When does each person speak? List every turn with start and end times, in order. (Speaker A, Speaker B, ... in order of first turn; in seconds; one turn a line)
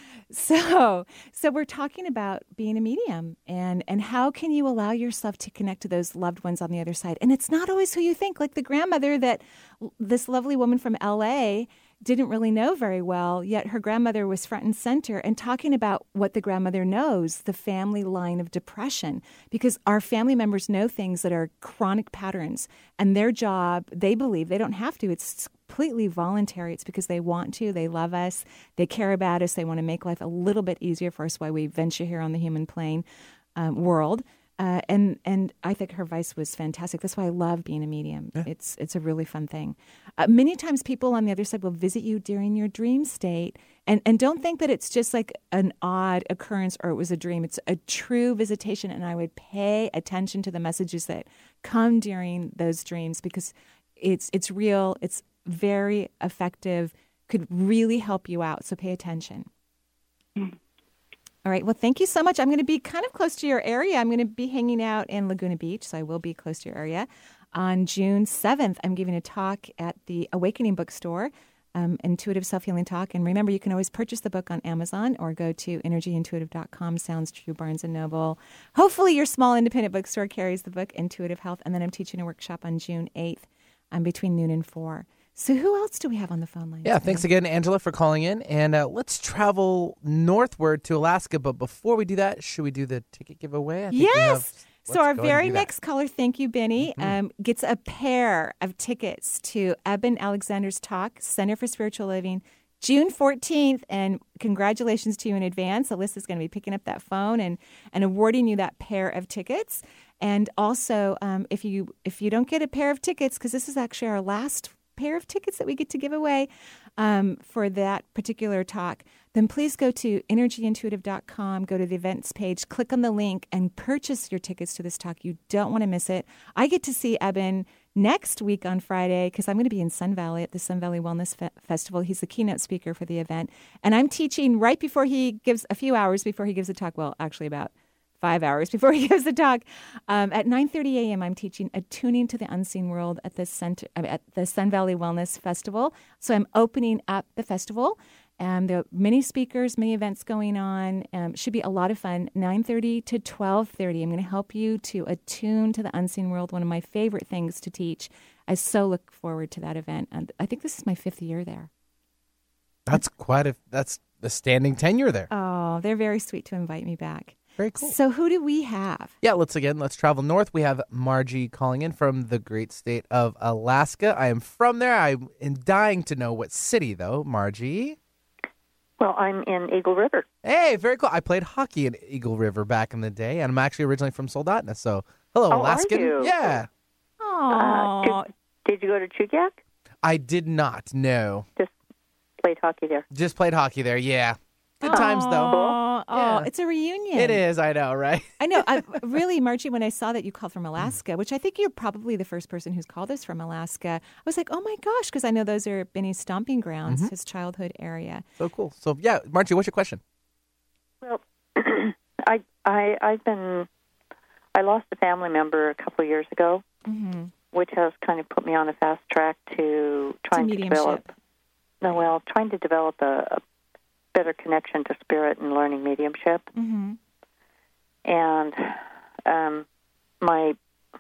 Speaker A: 0.3-33.0
Speaker A: 33.5-59.5
Speaker A: 61.4-87.3
Speaker B: 86.8-95.7
Speaker A: 93.9-161.7
Speaker B: 96.8-97.1
Speaker B: 162.9-165.3
Speaker A: 165.3-169.1
Speaker B: 167.6-167.9
Speaker B: 169.2-178.0
Speaker C: 179.0-180.2
Speaker B: 180.4-186.7
Speaker C: 185.5-186.5
Speaker A: 187.2-188.3
Speaker C: 187.5-189.6
Speaker B: 190.0-191.4
Speaker C: 192.4-193.1
Speaker B: 193.1-195.5
Speaker A: 194.8-197.4
Speaker C: 194.9-195.8
Speaker B: 196.1-196.5
Speaker B: 197.1-198.8
Speaker A: 198.4-208.2
Speaker B: 206.9-207.1
Speaker B: 208.4-210.0
Speaker C: 211.0-213.7
Speaker C: 214.6-216.6
Speaker A: 216.9-217.3
Speaker C: 217.5-221.1
Speaker A: 220.3-221.1
Speaker C: 221.8-223.4
Speaker C: 224.1-226.5
Speaker A: 226.6-227.0
Speaker C: 228.1-229.7
Speaker C: 230.2-230.6